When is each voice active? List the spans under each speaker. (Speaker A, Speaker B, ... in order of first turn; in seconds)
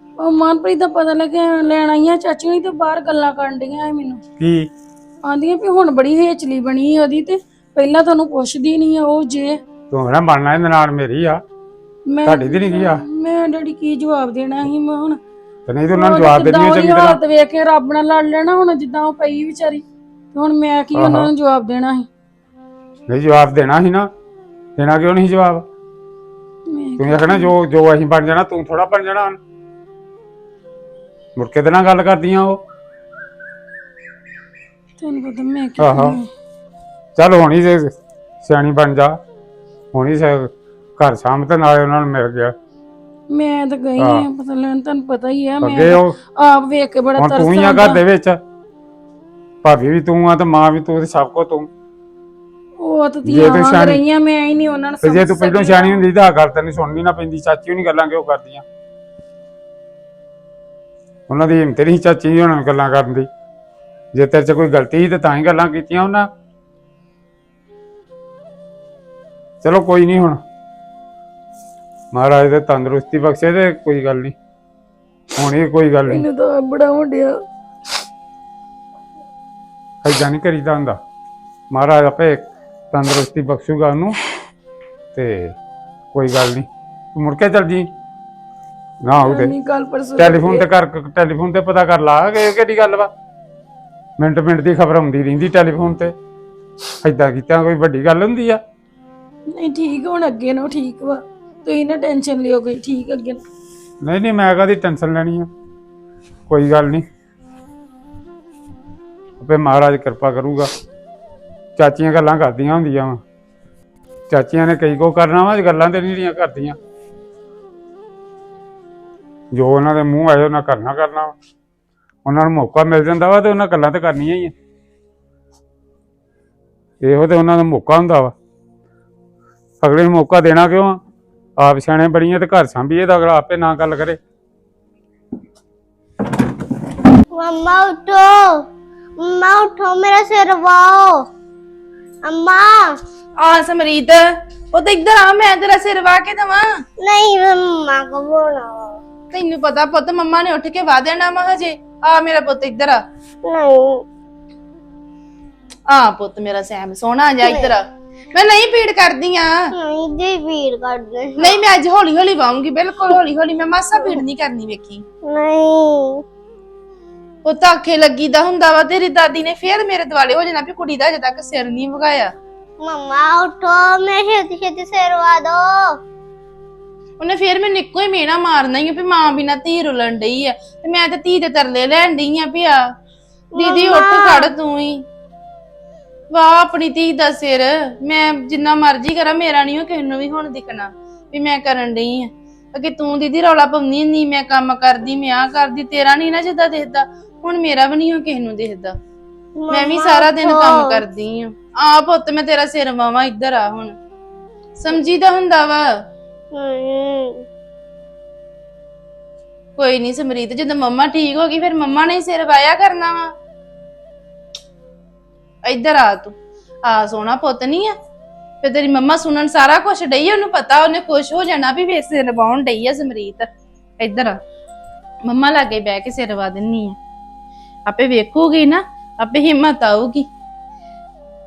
Speaker A: 0.2-4.2, 5.2-9.6, 12.1-15.2, 15.9-19.8, 20.3-22.1, 26.7-27.5, 35.0-36.3, 43.3-48.0, 52.8-56.0, 76.1-77.3, 89.2-90.7, 99.5-103.4
Speaker B: 4.4-4.7, 9.9-11.4, 12.2-13.0, 15.7-17.2, 20.9-21.3, 23.1-24.1, 24.8-25.6, 27.0-29.4, 31.4-32.6, 35.8-36.2, 37.2-37.9, 38.4-39.2, 39.9-42.5, 44.0-44.3, 45.6-46.1, 47.2-48.4, 49.6-51.7, 53.2-54.0, 55.0-58.6, 61.3-63.3, 64.1-66.3, 69.6-70.4, 72.1-74.3, 75.4-76.2, 80.0-81.0, 81.7-84.1, 85.1-85.5, 86.1-87.9, 89.0-89.6, 90.2-93.1, 94.2-96.1, 97.0-98.6, 104.0-105.5, 106.5-107.0, 109.4-110.7, 111.8-113.2, 114.3-116.8, 119.5-121.3, 122.2-124.5, 127.0-128.3, 129.8-131.0, 131.6-134.2
Speaker C: 137.3-138.6, 139.2-141.3, 142.2-142.9, 147.0-149.0, 153.4-154.0, 157.4-157.7, 159.7-161.6, 165.2-166.2, 172.8-176.0, 183.5-184.5, 199.6-201.0, 206.5-207.4
Speaker D: 143.4-146.6, 149.3-153.0, 155.9-157.8, 158.3-159.5, 161.4-165.0, 167.4-172.3, 177.2-182.8, 183.6-185.0, 186.3-198.9, 199.7-203.9, 204.8-205.8, 209.8-213.3, 215.7-216.3, 216.8-217.9, 218.6-223.5, 224.0-224.3, 225.2-226.9, 227.8-230.2